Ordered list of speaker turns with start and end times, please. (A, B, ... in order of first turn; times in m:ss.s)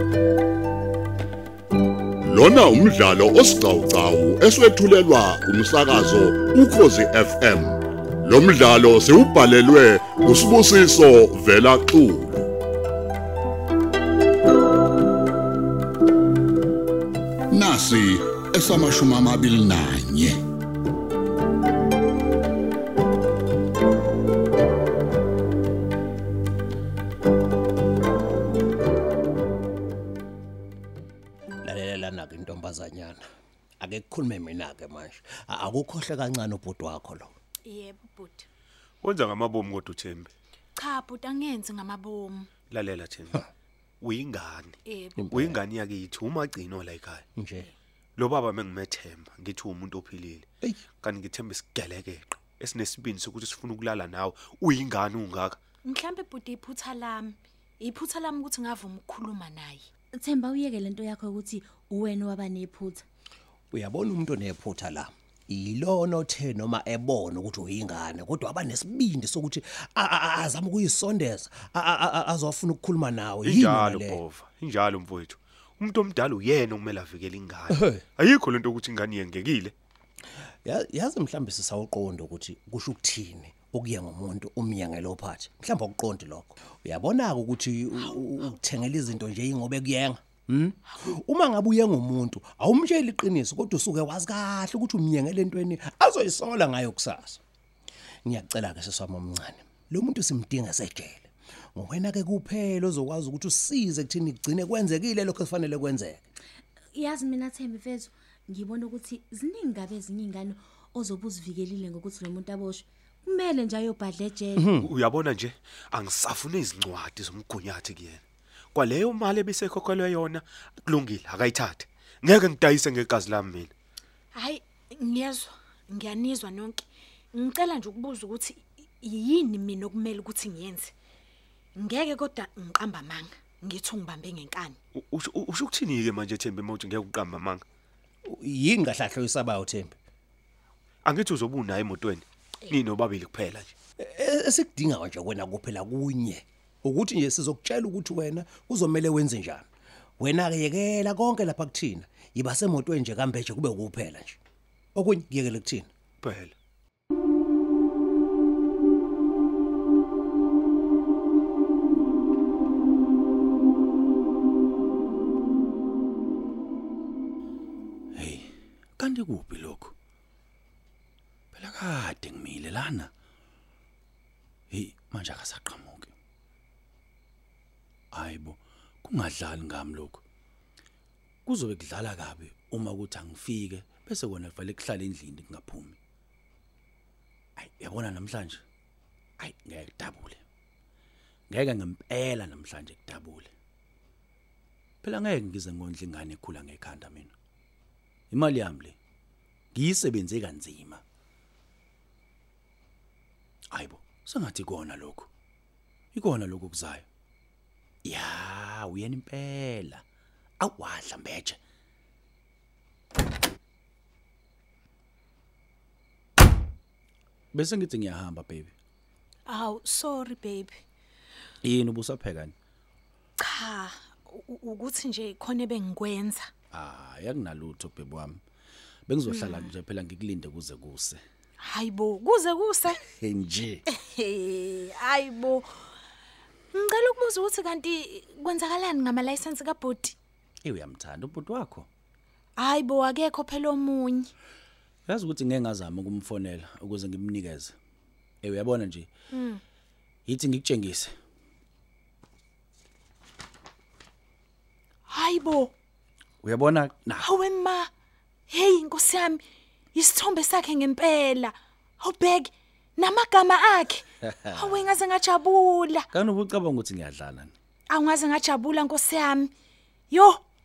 0:02.2-0:12.4 A
0:17.5-0:20.4 A
0:31.6-0:33.2 B
0:33.8-0:37.3 B
0:37.6-0:38.5 C
0:39.0-0:40.3 D
0:40.8-0:42.5 C
0:42.7-0:43.5 D
0:44.0-0:44.8 D
0:44.8-0:45.2 C
0:45.2-0:45.6 B
0:45.3-0:47.2 D
0:47.3-0:47.7 B
0:48.2-0:55.6 D
0:55.8-0:59.8 C
1:00.1-1:03.0 E
1:03.7-1:14.2 B
1:13.4-1:19.7 D
1:17.7-1:18.0 B
1:20.6-1:37.4 B
1:38.2-1:46.2 B
1:46.9-1:54.6 E
1:54.6-1:54.9 B
1:54.8-1:58.2 D
1:58.7-2:03.7 D
2:04.3-2:10.9 C
2:11.8-2:14.8 C
2:14.9-2:17.6 D
2:18.2-2:20.0 B
2:21.0-2:23.8 D
2:24.0-2:29.6 B
2:30.2-2:34.4 B
2:34.9-2:35.9 B
2:36.2-2:36.5 D
2:48.1-2:49.9 F
2:51.5-2:53.1 F
2:54.7-2:56.1 F
2:58.1-3:00.2 F
3:01.4-3:06.0 F
3:07.6-3:08.6 F
3:09.4-3:10.4 F
3:11.5-3:13.5 F
3:15.0-3:17.3 F
3:18.3-3:19.0 F
3:19.7-3:21.0 F
3:23.7-3:25.3 F
3:26.1-3:27.0 F
3:28.0-3:30.0 F
3:30.6-3:31.6 F
3:37.5-3:38.7 F
3:39.4-3:40.8 C
3:41.6-3:42.5 F
3:43.4-3:46.5 C
3:46.7-3:48.4 F
3:49.1-3:51.2 F
3:49.2-3:49.7 C
3:51.6-3:53.0 C
3:53.0-3:53.8 F
3:53.9-3:55.7 C
3:56.7-4:00.2 C
4:00.6-4:01.9 F
4:02.6-4:04.3 C
4:05.0-4:07.7 F
4:08.4-4:09.1 F
4:09.3-4:09.6 C
4:10.2-4:11.1 F
4:15.1-4:15.7 C
4:16.4-4:17.3 F
4:17.2-4:17.9 C
4:18.5-4:19.4 C
4:19.9-4:26.1 C
4:26.1-4:27.5 F
4:27.9-4:29.5 C
4:30.1-4:30.4 C